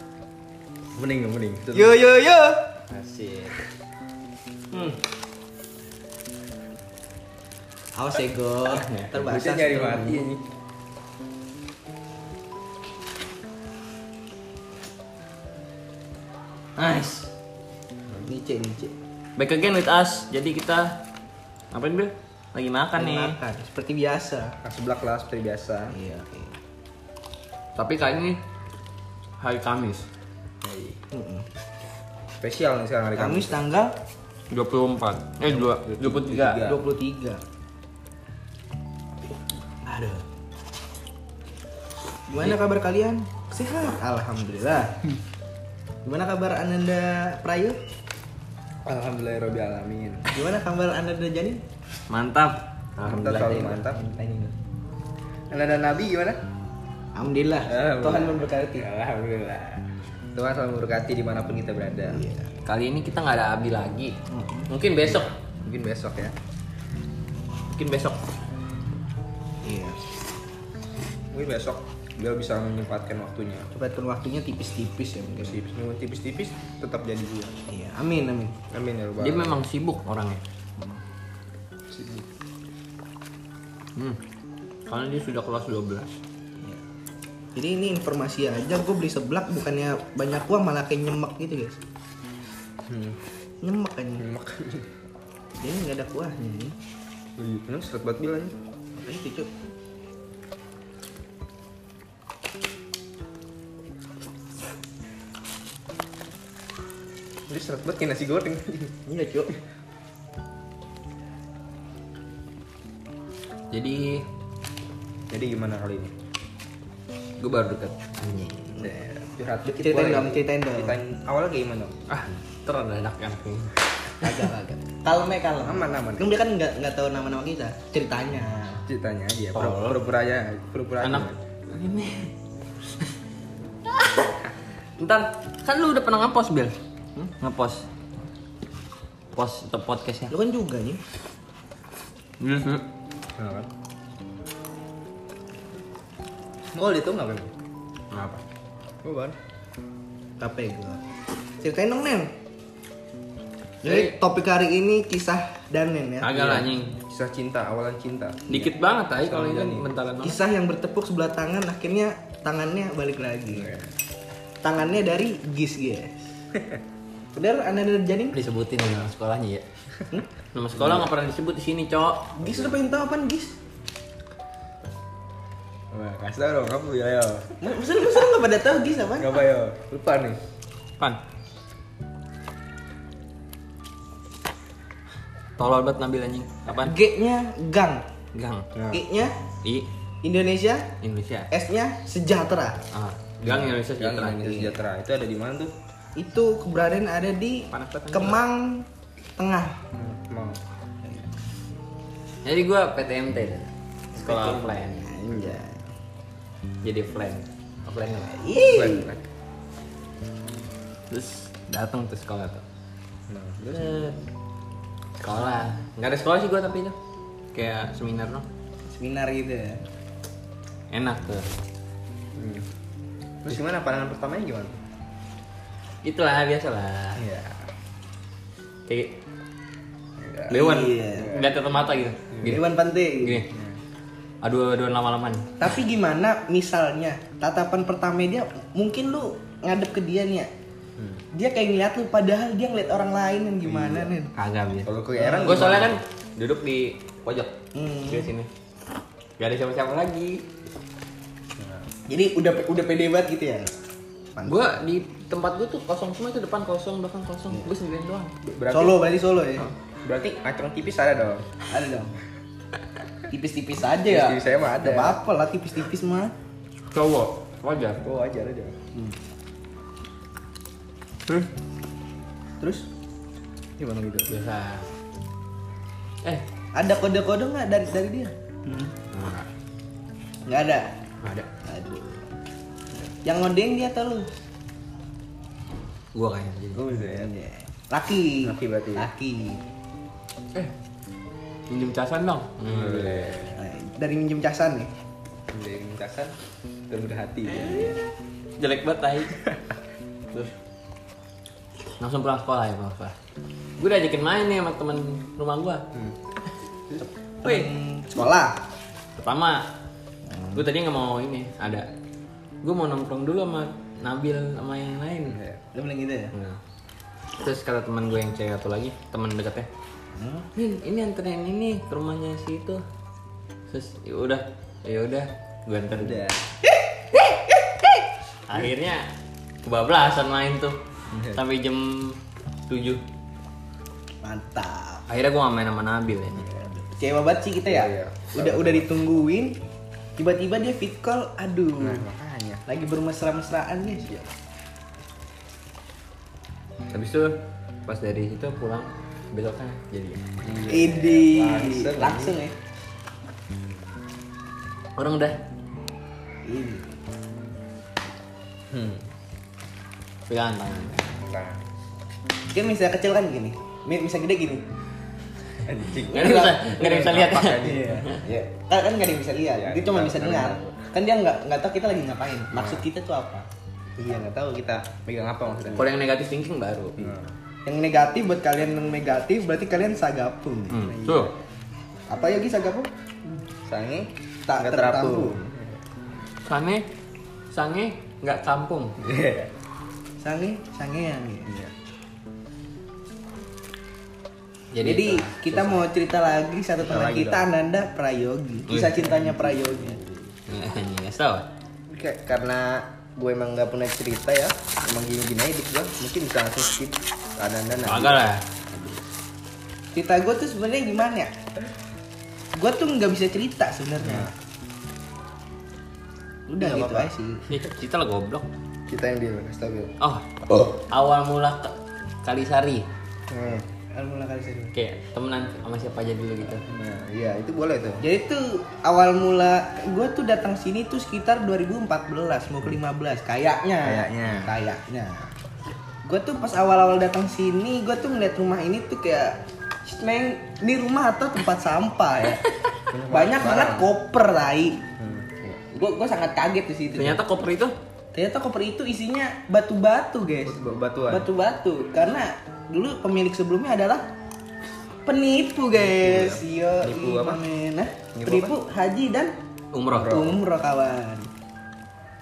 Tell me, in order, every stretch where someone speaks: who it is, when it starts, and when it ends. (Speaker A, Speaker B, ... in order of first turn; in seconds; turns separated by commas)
Speaker A: 0.9-1.9, Speaker B: 1.7-2.7, Speaker C: 2.9-3.6, Speaker B: 8.0-10.2, Speaker A: 8.8-10.4, Speaker C: 16.8-17.3, Speaker B: 18.2-18.9, Speaker C: 19.4-21.0, Speaker C: 21.7-23.4, Speaker B: 22.9-24.5, Speaker A: 24.6-25.9, Speaker B: 25.9-26.6, Speaker C: 27.8-28.4, Speaker C: 29.4-30.1, Speaker A: 30.6-31.0, Speaker B: 31.1-31.4, Speaker A: 32.4-33.6, Speaker B: 33.2-33.9, Speaker C: 34.5-36.7, Speaker A: 35.4-36.8, Speaker B: 36.6-37.4, Speaker C: 39.8-40.2, Speaker B: 42.3-44.9, Speaker B: 46.0-47.8, Speaker A: 48.8-50.3, Speaker B: 50.3-51.6, Speaker C: 52.1-53.8, Speaker A: 53.0-54.5, Speaker A: 55.5-56.4, Speaker B: 57.1-58.9, Speaker A: 57.6-62.2, Speaker B: 62.1-62.5, Speaker C: 62.6-64.2, Speaker B: 64.3-64.7, Speaker C: 64.7-65.3, Speaker A: 65.0-66.3, Speaker C: 67.7-68.2, Speaker B: 69.6-70.0, Speaker A: 71.3-73.7, Speaker B: 73.7-75.6, Speaker A: 75.4-77.5, Speaker B: 77.7-78.6, Speaker A: 78.7-79.6, Speaker C: 79.2-80.4, Speaker A: 81.9-82.2, Speaker C: 84.9-86.1, Speaker B: 87.5-91.8, Speaker A: 92.9-93.2, Speaker B: 93.6-94.2, Speaker A: 94.2-94.9, Speaker B: 95.6-96.7, Speaker A: 97.4-98.5, Speaker B: 99.0-99.5, Speaker A: 107.5-109.0, Speaker B: 109.0-109.5, Speaker C: 113.7-114.3, Speaker A: 115.3-116.1, Speaker C: 117.4-118.7, Speaker A: 118.7-121.9, Speaker B: 119.7-121.0, Speaker C: 122.1-124.4, Speaker B: 124.2-128.8, Speaker A: 125.6-126.3, Speaker A: 128.8-131.4, Speaker C: 129.5-130.0, Speaker C: 131.0-132.3, Speaker C: 133.9-134.3, Speaker C: 135.0-137.8, Speaker C: 139.3-140.3, Speaker B: 140.3-141.0, Speaker C: 142.4-142.8, Speaker A: 143.3-143.7, Speaker A: 146.7-147.5, Speaker C: 148.1-148.4, Speaker A: 149.0-149.4, Speaker B: 150.4-151.0, Speaker B: 151.6-152.3, Speaker C: 153.8-154.1, Speaker B: 153.8-156.3, Speaker C: 156.2-157.0, Speaker A: 156.3-159.9, Speaker C: 158.5-160.4, Speaker B: 160.2-163.7, Speaker A: 163.5-163.9, Speaker B: 164.6-166.2, Speaker A: 166.6-166.8, Speaker B: 167.3-168.4, Speaker C: 168.3-169.6, Speaker C: 170.5-172.3, Speaker A: 170.8-171.1, Speaker B: 172.4-173.6, Speaker A: 172.4-172.8, Speaker A: 175.9-177.6, Speaker B: 177.6-179.3, Speaker A: 179.2-180.4, Speaker C: 185.6-186.9, Speaker B: 186.7-188.0, Speaker C: 188.3-188.7, Speaker A: 188.7-189.0, Speaker B: 188.9-189.3, Speaker B: 190.2-190.8, Speaker C: 191.0-191.5, Speaker B: 191.5-192.8, Speaker C: 192.9-194.7, Speaker A: 193.4-195.7, Speaker B: 196.2-198.8, Speaker C: 197.7-198.4, Speaker B: 199.4-199.8, Speaker A: 199.9-200.6, Speaker C: 202.4-205.1, Speaker B: 204.2-205.8, Speaker A: 205.3-205.6, Speaker C: 206.8-208.4, Speaker B: 208.2-209.1, Speaker A: 208.6-209.2, Speaker C: 211.1-212.6, Speaker A: 213.3-213.8, Speaker C: 213.6-214.2, Speaker C: 215.2-216.9, Speaker C: 217.5-218.4, Speaker B: 218.9-219.8, Speaker C: 220.9-221.5, Speaker A: 222.3-222.6, Speaker A: 223.4-224.8, Speaker C: 226.0-227.2, Speaker A: 227.2-227.6, Speaker C: 228.9-229.2, Speaker A: 230.2-231.6, Speaker C: 230.5-232.7, Speaker B: 230.5-231.3, Speaker B: 232.4-233.4, Speaker C: 233.2-233.5, Speaker A: 233.5-233.8, Speaker C: 234.4-235.7, Speaker B: 235.6-240.5, Speaker A: 241.0-241.2, Speaker B: 241.3-244.3, Speaker A: 243.6-244.1, Speaker C: 244.3-248.5, Speaker A: 244.8-246.0, Speaker B: 245.2-245.6, Speaker B: 247.7-248.3, Speaker C: 249.4-250.4, Speaker A: 251.6-251.9, Speaker B: 252.1-253.7, Speaker B: 254.3-254.8, Speaker C: 254.4-258.3, Speaker A: 258.4-259.0, Speaker B: 258.7-259.7, Speaker A: 260.0-261.5, Speaker B: 261.7-262.2, Speaker B: 263.3-266.3, Speaker A: 264.1-265.2, Speaker C: 266.9-268.0, Speaker A: 268.0-268.8, Speaker B: 272.6-272.9, Speaker A: 273.8-274.3, Speaker C: 274.3-274.9, Speaker B: 276.7-278.3, Speaker C: 279.1-279.5, Speaker B: 280.4-280.9, Speaker C: 281.2-281.5, Speaker B: 281.6-282.3, Speaker B: 283.2-284.3, Speaker C: 286.1-286.8, Speaker A: 286.7-287.3, Speaker B: 286.9-289.6, Speaker A: 288.4-289.1, Speaker C: 291.7-293.4, Speaker A: 292.6-293.6, Speaker B: 293.5-294.9, Speaker A: 295.5-296.3, Speaker A: 296.9-297.9, Speaker B: 297.5-298.0, Speaker C: 298.6-299.4, Speaker C: 302.0-303.1, Speaker C: 303.8-305.8, Speaker B: 307.0-308.6, Speaker C: 307.4-307.7, Speaker C: 309.2-309.7, Speaker B: 310.2-310.7, Speaker C: 310.5-311.9, Speaker C: 312.6-315.4, Speaker A: 315.2-315.6, Speaker B: 315.7-316.3, Speaker C: 316.3-316.6, Speaker C: 317.4-319.7, Speaker B: 320.1-320.5, Speaker C: 320.5-322.8, Speaker C: 323.7-326.2, Speaker A: 325.9-326.4, Speaker B: 326.6-328.1, Speaker C: 328.5-329.1, Speaker C: 329.6-330.8, Speaker A: 331.1-331.4, Speaker C: 331.3-333.0, Speaker B: 334.2-335.0, Speaker C: 335.1-336.5, Speaker A: 336.4-336.7, Speaker B: 336.9-339.6, Speaker A: 337.7-339.0, Speaker B: 340.2-342.0, Speaker A: 341.8-342.6, Speaker B: 342.7-344.3, Speaker C: 346.9-350.2, Speaker A: 350.4-352.4, Speaker B: 350.7-352.6, Speaker C: 354.9-355.4, Speaker B: 356.4-357.0, Speaker A: 358.7-359.1, Speaker C: 360.3-361.0, Speaker A: 361.1-361.6, Speaker B: 362.5-364.6, Speaker A: 365.6-368.5, Speaker C: 366.1-368.2, Speaker B: 366.1-366.7, Speaker B: 367.6-373.5, Speaker A: 369.3-370.9, Speaker A: 372.5-372.9, Speaker A: 374.0-375.9, Speaker C: 375.7-377.1, Speaker A: 377.0-377.3, Speaker B: 377.6-380.9, Speaker C: 380.7-381.3, Speaker A: 380.8-381.3, Speaker B: 382.1-382.9, Speaker A: 383.6-385.8, Speaker B: 384.5-385.5, Speaker C: 386.4-386.8, Speaker C: 387.5-388.9, Speaker A: 389.0-389.5, Speaker B: 390.2-391.5, Speaker A: 391.5-391.7, Speaker C: 394.7-395.9, Speaker B: 394.8-400.0, Speaker A: 396.8-397.5, Speaker C: 398.7-399.1, Speaker A: 399.0-400.3, Speaker C: 400.5-401.5, Speaker A: 401.9-408.2, Speaker C: 407.8-408.4, Speaker B: 409.9-411.3, Speaker B: 412.5-414.3, Speaker A: 414.0-414.3, Speaker B: 416.5-417.4, Speaker A: 416.6-417.1, Speaker C: 417.5-418.5, Speaker A: 418.9-419.9, Speaker C: 420.0-422.9, Speaker A: 423.3-423.6, Speaker B: 423.9-424.7, Speaker C: 424.7-426.6, Speaker A: 426.6-428.0, Speaker B: 428.0-435.3, Speaker A: 433.8-434.5, Speaker B: 436.0-442.4, Speaker A: 442.9-443.9, Speaker B: 443.1-444.8, Speaker A: 445.0-445.6, Speaker B: 445.7-447.2, Speaker C: 446.9-447.7, Speaker B: 448.1-450.6, Speaker A: 450.4-451.3, Speaker B: 451.1-454.1, Speaker B: 455.1-459.3, Speaker A: 455.7-457.4, Speaker A: 458.1-458.6, Speaker C: 459.7-460.2, Speaker A: 459.9-460.4, Speaker B: 460.1-461.3